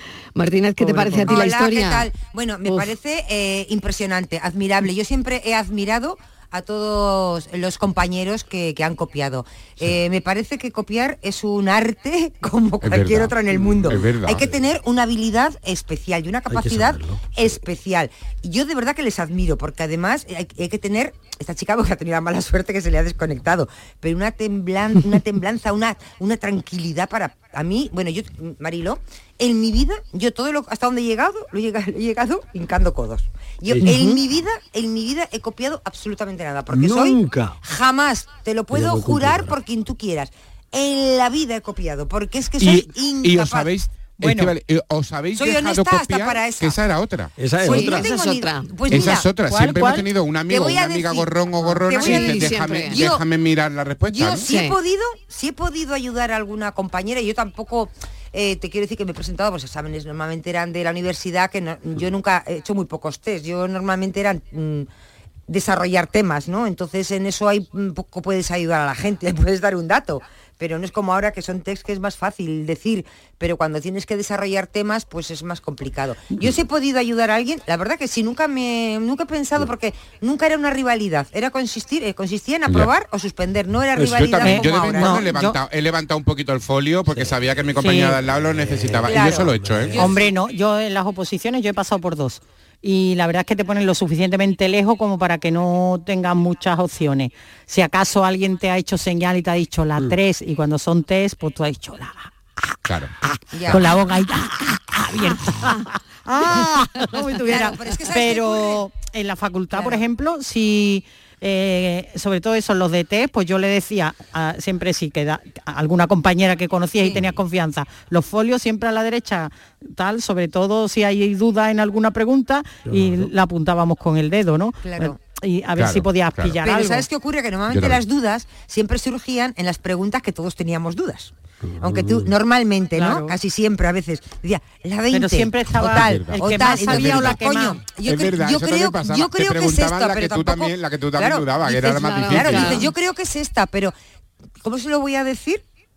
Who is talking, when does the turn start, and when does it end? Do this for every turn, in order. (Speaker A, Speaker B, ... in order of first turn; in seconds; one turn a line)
Speaker A: 0.3-2.1
Speaker B: 0.8-1.3
Speaker C: 1.2-43.7
Speaker A: 2.6-2.9
Speaker D: 12.8-13.3
Speaker E: 13.6-14.0
Speaker D: 13.9-14.5
Speaker E: 16.5-17.4
Speaker E: 33.7-34.1
Speaker E: 36.7-37.6
Speaker E: 38.7-39.5
Speaker D: 42.6-47.3
Speaker B: 44.2-44.5
Speaker C: 45.4-46.8
Speaker E: 47.4-48.1
Speaker C: 47.6-49.3
Speaker A: 47.6-48.7
Speaker D: 48.9-54.5
Speaker B: 49.5-50.1
Speaker C: 50.5-51.3
Speaker C: 51.9-53.2
Speaker A: 52.0-53.1
Speaker C: 54.1-64.9
Speaker A: 54.4-54.8
Speaker C: 65.5-85.3
Speaker D: 82.7-82.9
Speaker D: 83.9-90.2
Speaker B: 84.4-85.6
Speaker E: 87.1-90.3
Speaker B: 87.8-88.2
Speaker C: 89.0-89.5
Speaker B: 89.9-102.3
Speaker D: 102.8-103.1
Speaker C: 103.5-103.8
Speaker B: 103.7-127.1
Speaker C: 107.4-108.8
Speaker C: 109.7-110.0
Speaker E: 122.9-123.3
Speaker C: 124.8-125.2
Speaker D: 125.8-126.6
Speaker C: 126.6-143.9
Speaker D: 127.7-128.0
Speaker E: 131.6-132.3
Speaker B: 132.9-133.3
Speaker B: 135.1-137.8
Speaker D: 135.8-137.4
Speaker D: 138.0-142.9
Speaker A: 141.7-142.9
Speaker C: 144.6-145.6